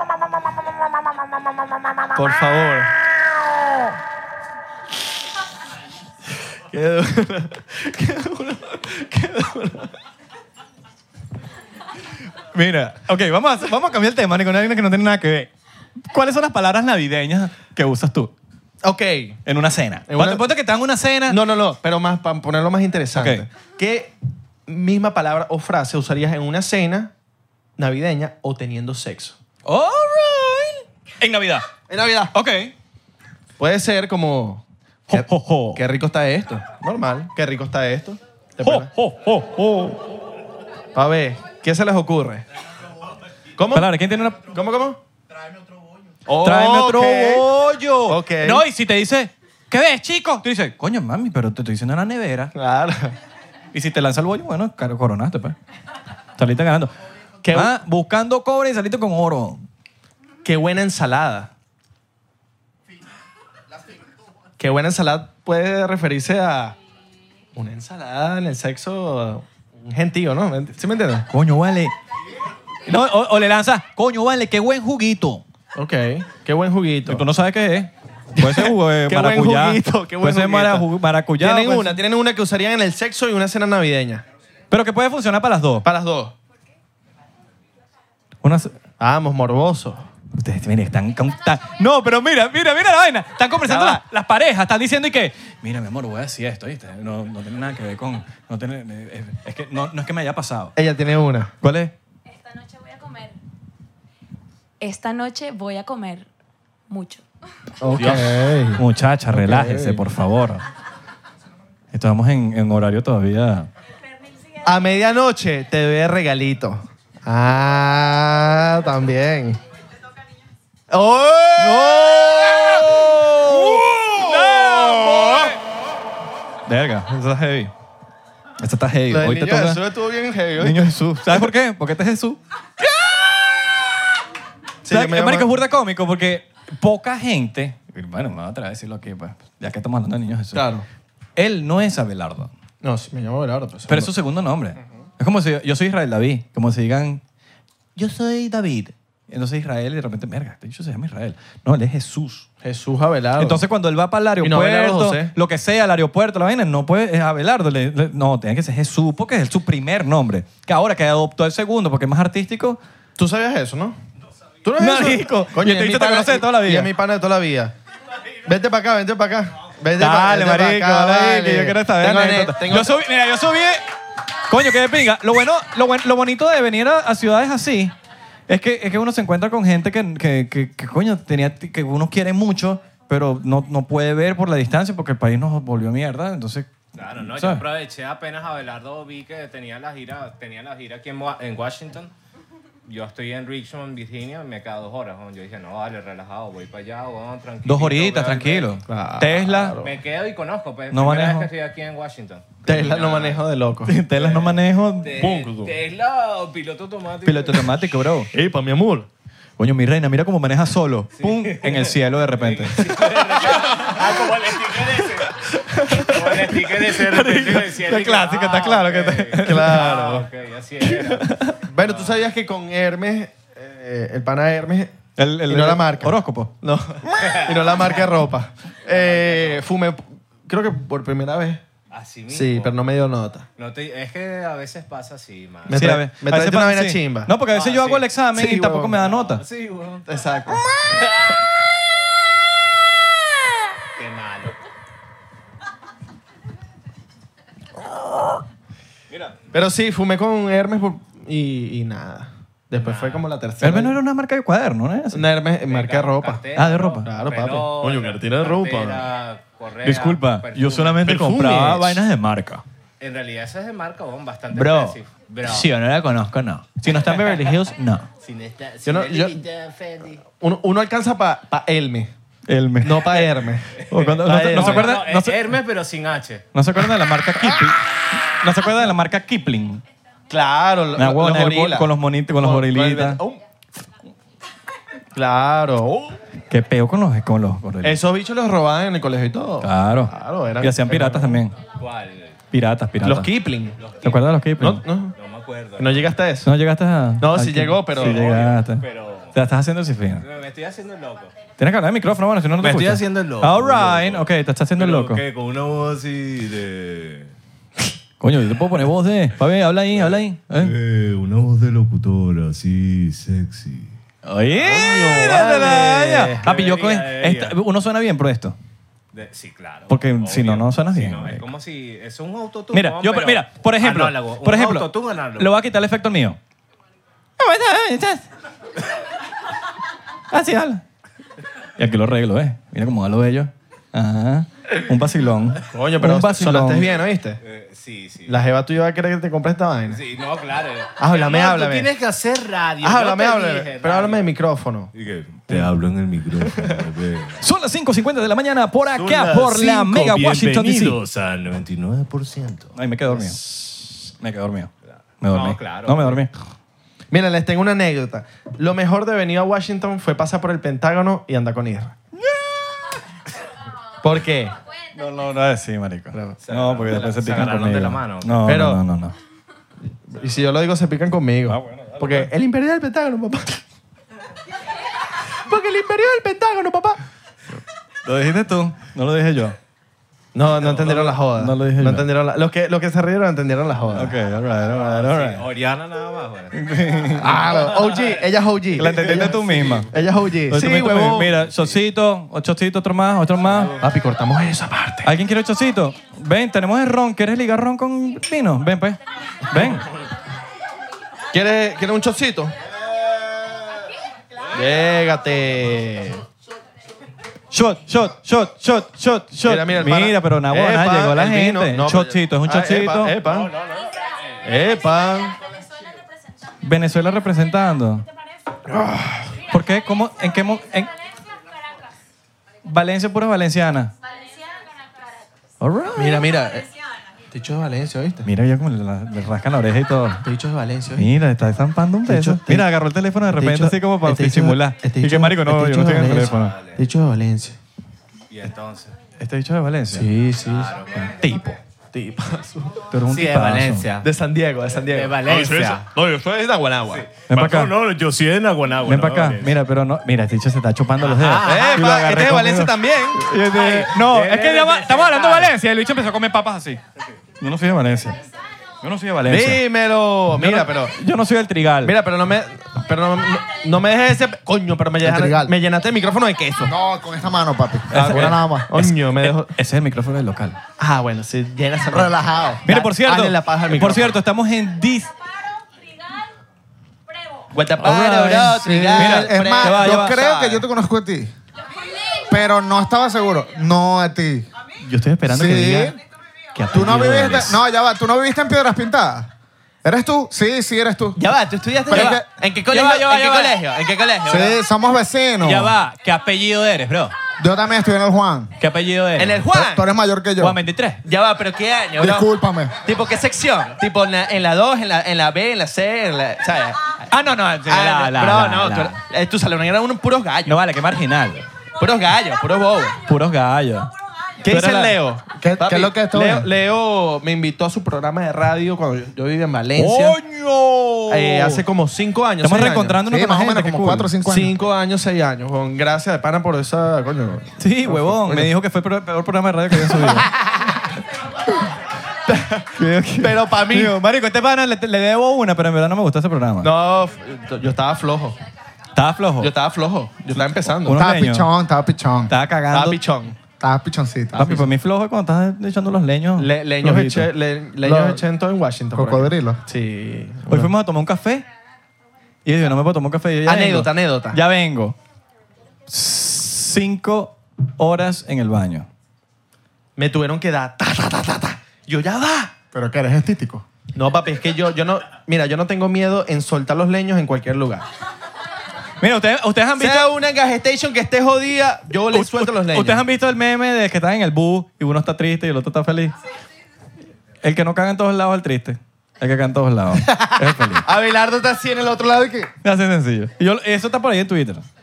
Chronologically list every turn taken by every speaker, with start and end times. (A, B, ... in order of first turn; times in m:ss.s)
0:02.0-0:02.9 A
0:06.5-0:10.0 A
0:12.5-0:15.5 B
0:16.1-0:18.3 B
0:18.8-0:19.4 A
0:19.5-0:21.4 B
0:20.1-0:20.5 A
0:21.3-0:24.1 A
0:23.2-0:23.4 B
0:24.7-0:27.1 A
0:27.8-0:29.4 A
0:29.6-0:31.7 B
0:31.9-0:32.4 A
0:32.3-0:32.7 B
0:33.6-0:38.9 A
0:35.1-0:35.8 B
0:38.6-0:40.0 B
0:40.9-0:42.4 A
0:43.6-0:45.0 A
0:43.7-0:44.4 B
0:46.3-0:47.5 A
0:46.3-0:52.5 B
0:48.1-0:48.6 A
0:52.6-0:53.2 A
0:53.7-0:55.6 B
0:56.4-0:56.9 B
0:57.4-0:57.7 A
0:57.5-0:59.6 B
1:00.4-1:01.5 A
1:04.6-1:06.8 A
1:07.6-1:11.3 A
1:11.3-1:11.9 B
1:12.9-1:15.4 B
1:15.8-1:17.2 A
1:17.1-1:22.0 B
1:18.4-1:24.2 A
1:24.7-1:25.9 B
1:25.8-1:26.4 A
1:28.4-1:28.8 B
1:29.0-1:30.1 A
1:30.3-1:40.7 B
1:33.6-1:34.0 A
1:40.8-1:41.5 A
1:41.6-1:41.9 B
1:42.3-1:43.4 C
1:44.8-1:46.3 C
1:46.9-1:47.2 C
1:47.8-1:50.0 A
1:48.0-1:48.2 B
1:48.8-1:50.6 B
1:51.9-1:53.7 B
1:54.6-1:59.6 A
2:00.9-2:05.5 A
2:01.6-2:05.6 B
2:06.7-2:07.7 B
2:08.6-2:09.8 B
2:09.1-2:11.5 A
2:10.6-2:12.4 B
2:14.8-2:15.5 A
2:14.9-2:20.7 B
2:20.5-2:20.9 A
2:21.4-2:22.5 B
2:22.8-2:24.1 A
2:23.9-2:27.2 B
2:28.0-2:32.5 B
2:32.6-2:33.6 A
2:33.4-2:42.8 B
2:34.4-2:35.3 A
2:43.2-2:44.0 A
2:44.6-2:47.7 A
2:44.8-2:46.9 B
2:48.4-2:53.0 A
2:50.0-2:53.8 B
2:54.5-2:57.9 B
2:58.5-3:07.7 B
3:07.0-3:12.1 D
3:12.9-3:18.8 D
3:17.6-3:19.8 B
3:18.9-3:20.0 A
3:19.8-3:23.4 D
3:20.9-3:21.5 B
3:22.6-3:24.0 A
3:23.9-3:25.3 B
3:24.1-3:27.7 D
3:25.2-3:25.7 E
3:27.2-3:28.3 B
3:28.3-3:29.1 A
3:29.6-3:32.9 B
3:31.2-3:35.4 D
3:35.5-3:36.3 A
3:36.0-3:42.2 D
3:37.0-3:39.9 B
3:39.4-3:40.3 A
3:40.8-3:41.6 B
3:41.6-3:51.6 A
3:45.2-3:46.5 B
3:47.2-3:48.1 D
3:48.9-3:49.6 D
3:51.9-3:52.8 D
3:52.3-3:53.5 A
3:53.6-3:55.9 D
3:55.7-3:57.3 A
3:55.7-3:59.4 B
3:57.4-3:58.1 D
3:58.3-3:59.0 A
3:59.1-4:00.1 D
4:00.1-4:00.6 A
4:00.9-4:01.3 D
4:04.0-4:04.6 D
4:09.1-4:09.4 D
4:09.5-4:14.0 A
4:12.8-4:13.3 D
4:13.6-4:15.3 B
4:15.1-4:16.4 A
4:15.6-4:21.1 D
4:16.6-4:17.1 B
4:17.0-4:19.1 A
4:19.8-4:22.6 B
4:21.0-4:22.0 A
4:23.0-4:25.7 D
4:24.5-4:28.1 B
4:27.0-4:27.5 D
4:28.2-4:30.3 D
4:28.8-4:29.4 A
4:30.4-4:32.1 A
4:32.5-4:33.2 B
4:32.8-4:35.0 A
4:33.7-4:36.5 D
4:33.9-4:35.5 B
4:36.5-4:39.8 B
4:40.3-4:43.4 A
4:41.0-4:43.2 B
4:45.1-4:46.2 A
4:46.5-4:48.0 B
4:47.8-4:51.4 A
4:49.6-4:51.6 B
4:51.7-4:52.4 D
4:52.5-4:53.3 B
4:53.0-4:53.8 A
4:53.8-4:54.2 D
4:54.0-4:54.8 B
4:54.6-4:55.2 A
4:55.2-4:56.2 D
4:55.8-4:56.5 A
4:56.4-5:00.2 B
4:57.2-4:58.3 A
4:57.9-4:59.4 D
5:00.2-5:01.4 D
5:01.6-5:05.2 B
5:02.6-5:07.3 E
5:08.2-5:10.7 B
5:10.0-5:14.0 E
5:14.2-5:18.6 B
5:14.7-5:16.3 A
5:16.3-5:17.6 D
5:19.1-5:25.6 D
5:19.9-5:21.5 B
5:22.7-5:26.4 B
5:27.4-5:28.3 B
5:30.3-5:30.8 B
5:31.8-5:36.9 B
5:35.7-5:37.4 A
5:37.4-5:38.4 D
5:38.3-5:40.0 A
5:39.9-5:44.3 D
5:41.0-5:41.9 A
5:42.8-5:44.9 A
5:44.9-5:47.4 E
5:47.4-5:51.0 B
5:48.9-5:52.7 E
5:52.8-5:56.3 B
5:55.3-5:56.2 D
5:57.1-6:02.0 A
6:02.3-6:02.8 B
6:04.0-6:04.6 A
6:04.9-6:09.2 B
6:06.4-6:08.6 D
6:08.5-6:08.8 A
6:10.1-6:13.6 A
6:11.5-6:12.2 B
6:15.4-6:17.0 A
6:18.0-6:19.6 B
6:20.3-6:24.2 A
6:20.6-6:20.9 D
6:20.8-6:22.1 B
6:23.9-6:25.5 B
6:24.7-6:28.3 D
6:26.5-6:27.6 B
6:27.2-6:31.4 A
6:28.8-6:29.9 B
6:29.1-6:29.9 D
6:30.5-6:33.8 B
6:31.4-6:31.8 D
6:33.8-6:35.1 A
6:35.0-6:39.9 B
6:41.3-6:42.6 A
6:44.5-6:46.2 A
6:47.5-6:53.2 B
6:49.4-6:53.5 A
6:53.2-6:54.5 D
6:54.4-6:55.4 A
6:56.6-6:58.0 B
6:58.7-6:59.3 A
6:59.5-7:00.9 B
7:02.6-7:03.9 B
7:04.1-7:05.3 C
7:05.6-7:06.3 B
7:05.9-7:06.7 A
7:07.3-7:08.3 A
7:08.2-7:10.2 B
7:10.2-7:11.1 A
7:11.0-7:16.6 B
7:12.0-7:12.7 A
7:13.3-7:17.6 A
7:16.1-7:16.8 D
7:18.3-7:19.0 D
7:19.2-7:20.1 B
7:19.9-7:20.9 A
7:20.4-7:21.2 D
7:21.0-7:21.6 B
7:21.9-7:22.9 A
7:22.9-7:23.9 B
7:23.1-7:24.1 D
7:24.0-7:27.1 A
7:24.7-7:25.9 D
7:25.3-7:25.8 E
7:26.9-7:27.3 D
7:27.3-7:27.7 B
7:27.3-7:29.6 E
7:28.9-7:36.8 B
7:31.0-7:31.9 D
7:31.4-7:33.3 A
7:33.4-7:35.6 D
7:37.4-7:38.2 B
7:38.8-7:39.6 B
7:39.2-7:41.0 A
7:40.3-7:42.0 B
7:41.8-7:46.8 A
7:45.0-7:45.5 F
7:46.6-7:48.7 F
7:47.9-7:50.6 B
7:47.9-7:49.5 A
7:50.8-7:54.2 A
7:51.9-7:52.6 F
7:52.6-7:55.1 B
7:57.5-8:00.7 A
7:57.8-8:00.2 B
7:58.5-8:01.3 F
8:02.3-8:04.5 F
8:04.8-8:06.0 B
8:05.3-8:06.0 F
8:06.6-8:07.6 B
8:06.7-8:09.3 F
8:09.8-8:11.2 F
8:11.2-8:14.6 A
8:11.9-8:12.3 F
8:11.9-8:13.6 B
8:14.2-8:15.8 F
8:15.4-8:17.1 B
8:17.4-8:18.5 F
8:18.6-8:19.4 B
8:19.2-8:19.9 A
8:19.5-8:20.6 F
8:20.4-8:21.0 B
8:21.0-8:27.0 A
8:22.0-8:22.8 F
8:27.1-8:29.0 B
8:27.6-8:30.6 A
8:30.5-8:31.4 B
8:31.8-8:33.0 A
8:33.0-8:33.9 B
8:34.4-8:35.0 B
8:34.4-8:40.2 A
8:35.4-8:36.5 F
8:39.8-8:41.6 B
8:41.1-8:43.0 A
8:42.4-8:44.1 B
8:43.1-8:44.5 F
8:44.2-8:48.5 A
8:47.6-8:50.3 B
8:49.7-8:50.3 A
8:52.3-8:52.7 A
8:52.7-8:56.7 B
8:53.2-8:54.0 A
8:56.6-8:58.4 A
8:59.0-8:59.5 B
8:59.4-9:01.0 A
9:00.4-9:01.5 B
9:00.9-9:02.3 F
9:02.3-9:03.0 B
9:02.7-9:03.4 A
9:03.6-9:04.6 F
9:04.3-9:04.7 A
9:04.3-9:07.3 B
9:06.4-9:10.7 A
9:08.9-9:09.6 F
9:10.5-9:11.4 B
9:12.4-9:15.0 B
9:13.4-9:14.4 A
9:15.9-9:18.9 B
9:20.0-9:22.6 A
9:22.7-9:23.6 F
9:23.9-9:27.9 A
9:29.0-9:30.1 B
9:29.8-9:33.0 A
9:32.1-9:36.2 B
9:37.4-9:40.8 B
9:40.8-9:42.5 A
9:42.6-9:44.7 B